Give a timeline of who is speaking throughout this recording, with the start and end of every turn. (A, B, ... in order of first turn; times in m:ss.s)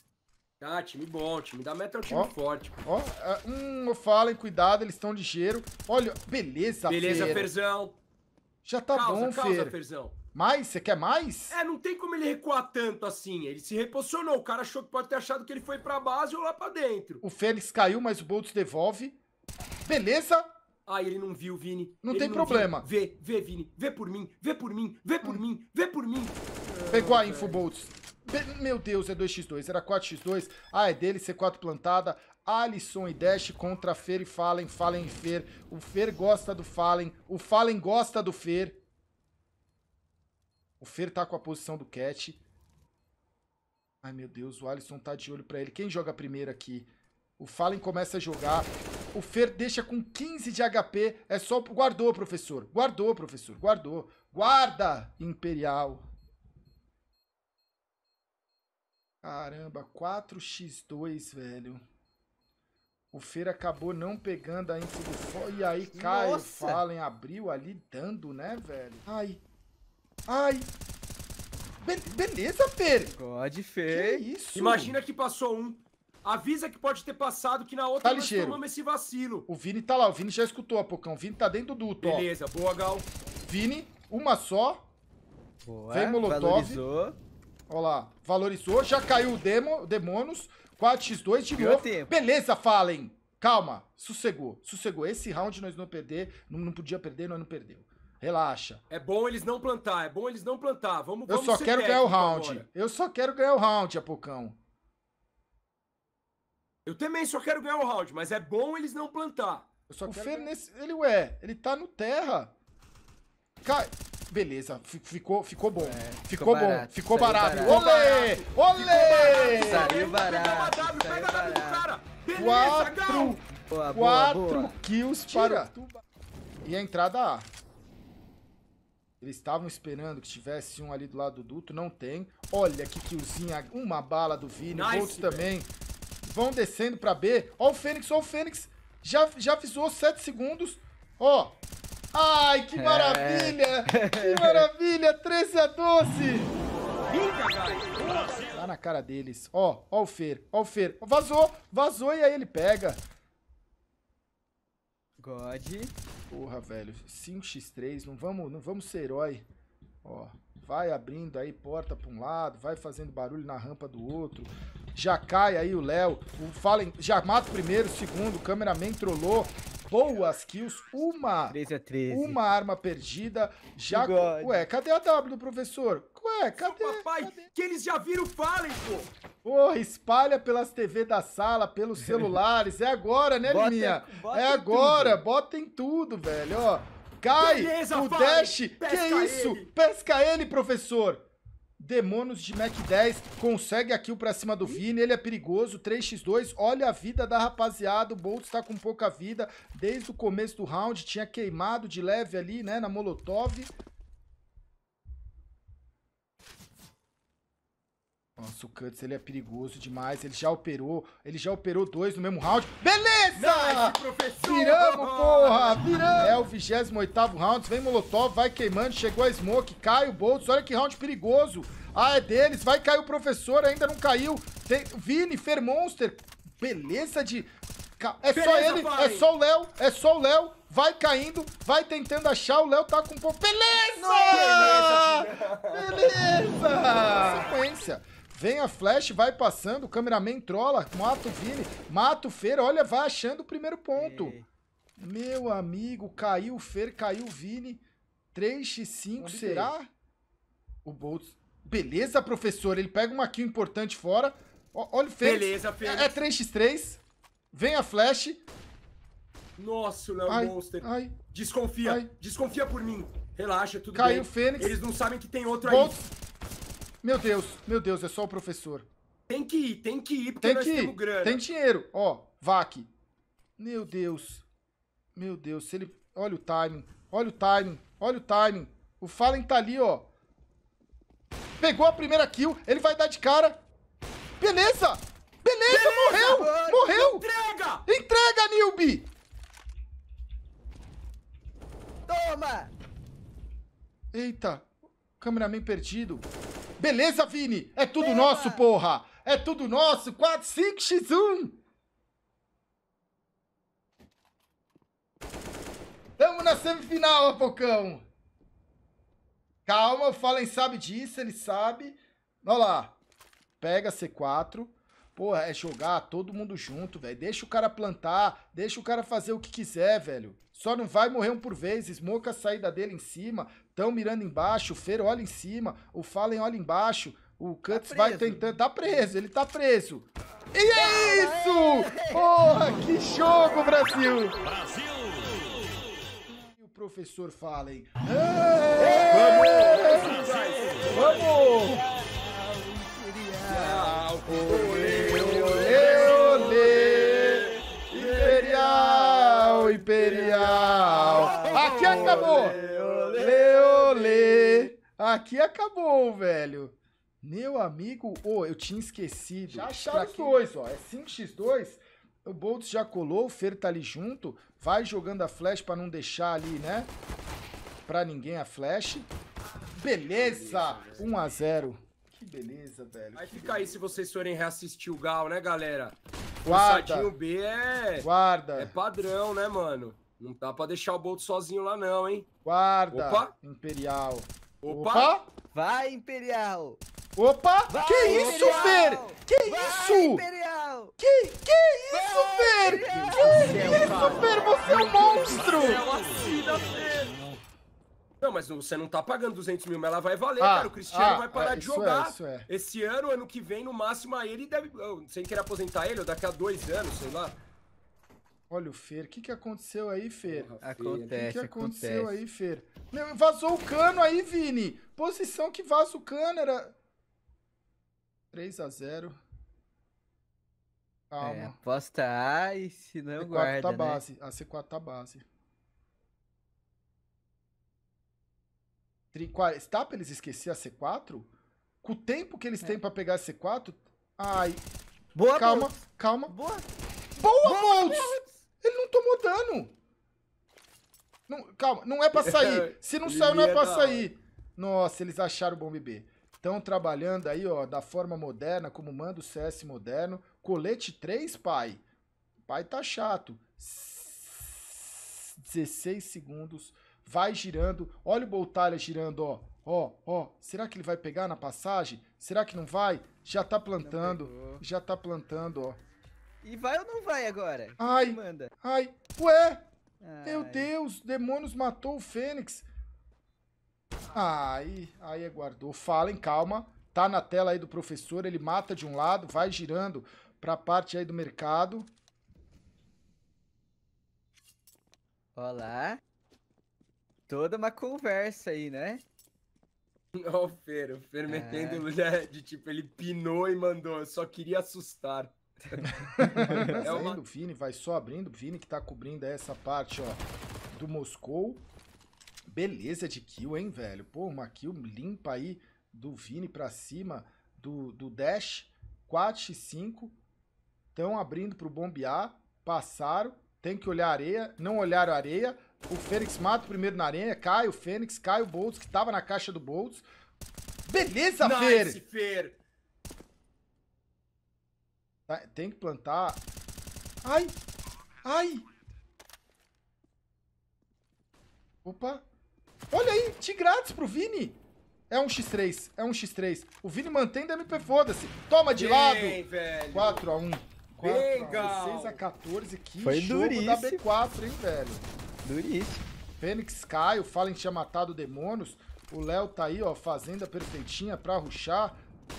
0:00.6-0:02.8 A
0:02.8-0:07.5 B
0:06.9-0:08.0 A
0:07.1-0:07.4 C
0:08.6-0:09.7 B
0:08.9-0:10.1 A
0:10.3-0:11.6 B
0:11.5-0:17.2 A
0:17.2-0:19.2 B
0:19.8-0:20.5 B
0:20.8-0:27.6 A
0:22.0-0:22.8 B
0:26.9-0:38.8 B
0:40.8-0:42.4 B
0:44.0-0:56.0 B
0:59.2-1:01.8 B
1:03.1-1:09.4 B
1:05.9-1:06.8 C
1:10.3-1:10.7 B
1:11.8-1:13.2 B
1:13.1-1:14.2 C
1:13.9-1:15.0 B
1:14.5-1:19.4 A
1:18.0-1:18.6 B
1:19.5-1:22.3 B
1:22.0-1:23.1 A
1:23.4-1:24.8 B
1:25.6-1:27.2 C
1:25.9-1:26.8 B
1:27.7-1:38.8 B
1:31.5-1:32.1 C
1:38.9-1:42.6 A
1:41.3-1:44.6 B
1:46.8-1:49.7 A
1:49.9-1:52.5 B
1:50.0-1:50.5 C
1:53.6-1:59.9 B
1:55.8-1:57.9 C
1:57.6-2:03.4 A
1:59.2-2:01.8 C
2:02.3-2:05.7 B
2:03.6-2:06.0 C
2:06.6-2:07.5 B
2:09.2-2:15.7 B
2:14.7-2:15.5 A
2:16.2-2:21.6 B
2:22.1-2:26.5 B
2:22.8-2:24.7 C
2:27.1-2:28.7 A
2:28.5-2:33.0 B
2:35.2-2:35.9 C
2:36.3-2:39.4 B
2:40.0-2:51.6 B
2:51.5-2:52.4 C
2:52.1-2:57.5 B
2:53.9-2:54.6 C
2:56.6-2:59.1 A
2:59.4-3:11.2 B
3:02.1-3:02.3 C
3:03.4-3:05.2 C
3:07.4-3:09.7 A
3:11.8-3:23.7 B
3:28.4-4:04.4 B
3:33.3-3:36.4 A
3:48.3-3:49.3 A
3:53.9-3:55.1 C
3:54.3-3:56.1 A
3:56.1-3:57.5 C
4:03.9-4:04.4 C
4:05.0-4:07.8 B
4:08.3-4:09.9 B
4:09.2-4:09.7 C
4:10.8-4:17.0 B
4:15.2-4:16.2 A
4:17.5-4:18.4 B
4:19.6-4:26.0 A
4:20.3-4:21.2 B
4:21.8-4:22.1 B
4:23.9-4:24.8 B
4:25.6-4:26.1 B
4:27.0-4:28.9 B
4:29.3-4:31.4 A
4:30.4-4:32.9 B
4:33.6-4:34.4 B
4:35.1-4:40.1 B
4:41.6-4:43.6 B
4:44.4-4:47.2 B
4:45.7-4:47.8 A
4:46.1-4:46.9 C
4:47.8-4:49.1 B
4:52.1-4:52.7 C
4:54.1-4:56.2 B
4:56.8-5:01.6 B
4:58.0-4:58.7 C
5:06.2-5:08.0 B
5:09.6-5:13.0 B
5:13.6-5:34.4 B
5:27.7-5:28.5 C
5:30.7-5:32.9 C
5:36.3-5:40.2 B
5:38.8-5:47.7 C
5:38.8-5:41.2 A
5:40.9-5:41.8 B
5:43.5-5:53.4 A
5:45.0-5:52.6 B
5:50.3-5:54.7 C
5:53.2-6:06.9 B
5:59.5-6:00.4 C
6:07.8-6:09.1 B
6:09.7-6:14.0 B
6:10.1-6:11.1 A
6:13.2-6:22.3 A
6:16.4-6:17.1 B
6:18.0-6:18.7 B
6:22.4-6:25.3 B
6:22.9-6:23.3 A
6:24.6-6:25.2 A
6:25.5-6:26.8 C
6:27.2-6:30.2 B
6:27.7-6:30.9 C
6:28.0-6:29.0 A
6:31.0-6:37.4 B
6:32.0-6:36.8 C
6:32.0-6:32.3 A
6:33.1-6:34.2 A
6:35.0-6:37.1 A
6:38.2-6:47.4 A
6:40.4-6:42.5 B
6:48.5-6:50.5 B
6:50.2-6:51.2 A
6:50.6-6:52.2 C
6:51.1-6:56.7 B
6:58.3-6:59.2 B
7:01.1-7:01.6 B
7:01.2-7:04.0 C
7:03.2-7:05.2 B
7:09.1-7:11.3 B
7:11.8-7:14.6 B
7:15.1-7:16.6 C
7:15.3-7:16.3 B
7:17.2-7:19.7 B
7:17.4-7:18.2 A
7:21.3-7:31.8 B
7:22.1-7:24.1 A
7:32.5-7:45.8 B
7:43.8-7:44.6 C
7:46.4-7:48.5 C
7:47.8-7:49.7 B
7:50.0-7:50.7 C
7:50.2-7:52.6 B
7:54.1-8:01.9 B
8:05.4-8:06.0 C
8:07.3-8:09.0 C
8:10.1-8:17.2 A
8:11.3-8:11.8 C
8:15.7-8:17.0 C
8:15.9-8:21.6 B
8:22.4-8:30.1 B
8:30.9-8:40.0 B
8:40.9-8:42.0 B
8:41.4-8:42.6 A
8:45.3-8:46.4 B
8:47.2-8:47.5 B
8:48.2-8:48.6 B
8:51.8-8:52.2 B
8:52.9-8:54.6 B
8:55.1-9:05.0 B
8:58.7-9:00.3 A
9:01.0-9:02.2 A
9:03.0-9:04.0 C
9:05.4-9:06.0 C
9:06.4-9:12.0 B